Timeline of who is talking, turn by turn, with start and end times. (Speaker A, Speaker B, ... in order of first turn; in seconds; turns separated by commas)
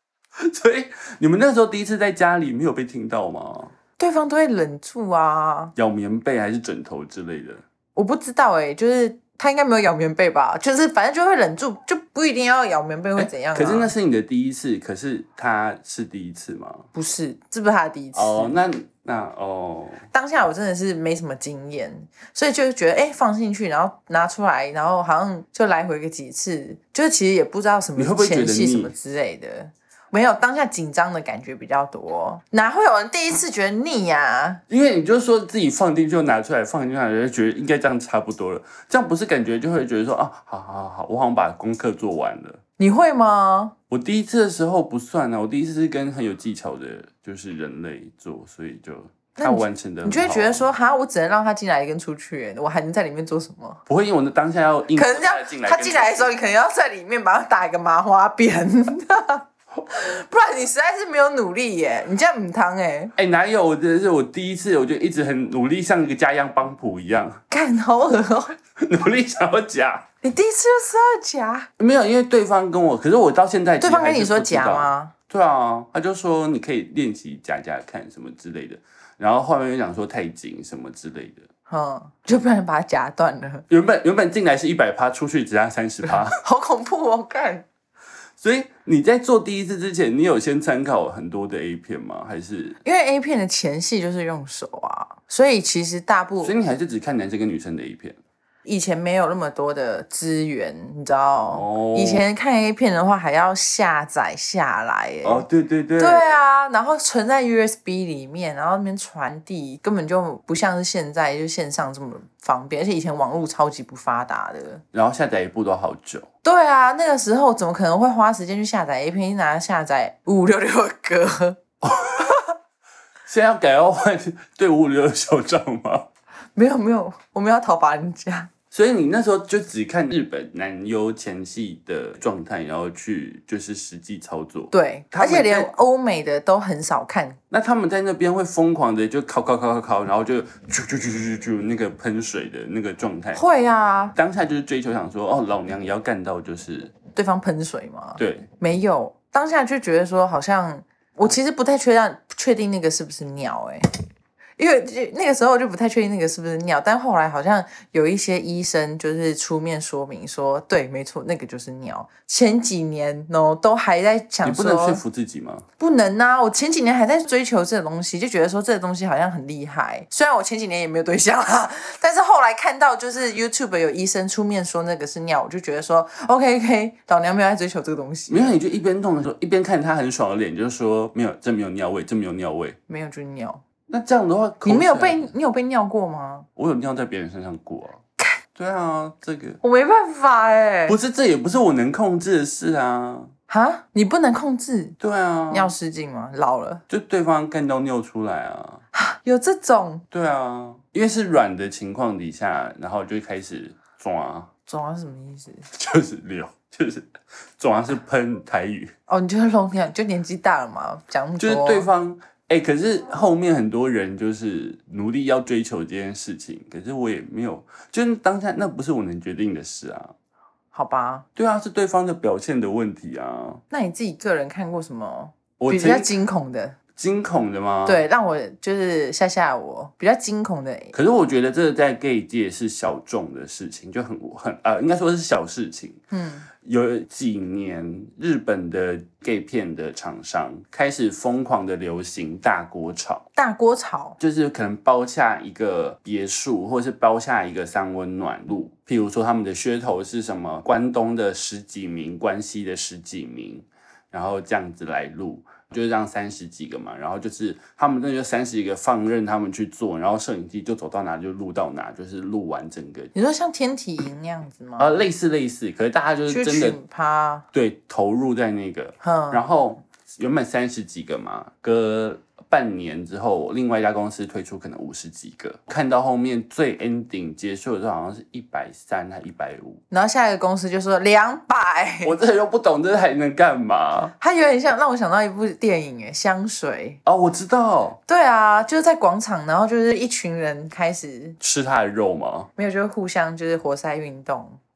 Speaker A: 0.4-3.7, Speaker B: 4.0-5.7, Speaker A: 5.8-7.6, Speaker B: 7.9-13.9, Speaker A: 13.2-16.9, Speaker B: 16.9-18.6, Speaker A: 18.1-20.1, Speaker B: 20.1-34.6, Speaker A: 27.9-28.9, Speaker A: 34.7-42.6, Speaker B: 42.8-43.7, Speaker A: 43.9-50.7, Speaker B: 49.4-53.8, Speaker A: 53.9-56.3, Speaker B: 54.9-63.1, Speaker A: 63.1-67.4, Speaker B: 67.5-68.5, Speaker A: 68.8-70.1, Speaker B: 70.2-71.7, Speaker A: 71.8-81.5, Speaker B: 73.8-75.1, Speaker B: 81.7-83.6, Speaker A: 83.7-86.4, Speaker B: 86.4-87.7, Speaker A: 88.4-92.8, Speaker B: 92.8-96.5, Speaker A: 96.4-98.2, Speaker B: 98.6-105.5, Speaker A: 101.5-102.2, Speaker A: 105.2-106.3, Speaker B: 106.0-114.8, Speaker A: 114.9-116.3, Speaker B: 116.4-121.6, Speaker A: 121.8-122.3, Speaker A: 123.3-126.1, Speaker B: 126.5-128.5, Speaker A: 128.7-135.7, Speaker B: 134.7-137.4, Speaker A: 137.5-143.4, Speaker B: 143.3-144.2, Speaker A: 144.1-146.9, Speaker B: 147.1-153.8, Speaker A: 148.2-148.5, Speaker B: 154.6-165.0, Speaker A: 164.4-165.7, Speaker B: 165.8-178.6, Speaker A: 178.3-182.8, Speaker B: 182.9-183.6, Speaker A: 183.9-185.3, Speaker B: 184.6-186.5, Speaker A: 186.6-188.0, Speaker A: 188.5-189.6, Speaker B: 189.6-191.0, Speaker A: 190.9-193.3, Speaker B: 193.5-195.0, Speaker A: 195.0-195.7, Speaker B: 195.5-196.8, Speaker A: 196.9-198.8, Speaker B: 198.9-200.0, Speaker A: 200.1-204.5, Speaker B: 204.7-205.7, Speaker A: 205.7-207.1, Speaker A: 207.6-208.9, Speaker B: 209.1-211.9, Speaker A: 211.4-220.1, Speaker B: 220.7-221.2, Speaker A: 221.3-223.6, Speaker B: 223.7-226.8, Speaker A: 225.6-226.1, Speaker A: 226.9-228.0, Speaker B: 227.8-230.9, Speaker A: 230.9-236.0, Speaker B: 236.1-236.5, Speaker A: 236.6-243.2, Speaker B: 243.3-244.2, Speaker A: 244.2-263.1, Speaker B: 263.1-265.1, Speaker A: 264.8-266.8, Speaker B: 266.3-267.4, Speaker A: 267.5-279.8, Speaker B: 269.0-269.4, Speaker B: 279.9-282.1, Speaker A: 282.0-284.1, Speaker B: 284.2-287.0, Speaker A: 287.0-288.0, Speaker B: 288.1-291.4, Speaker A: 291.4-292.5, Speaker B: 292.6-294.6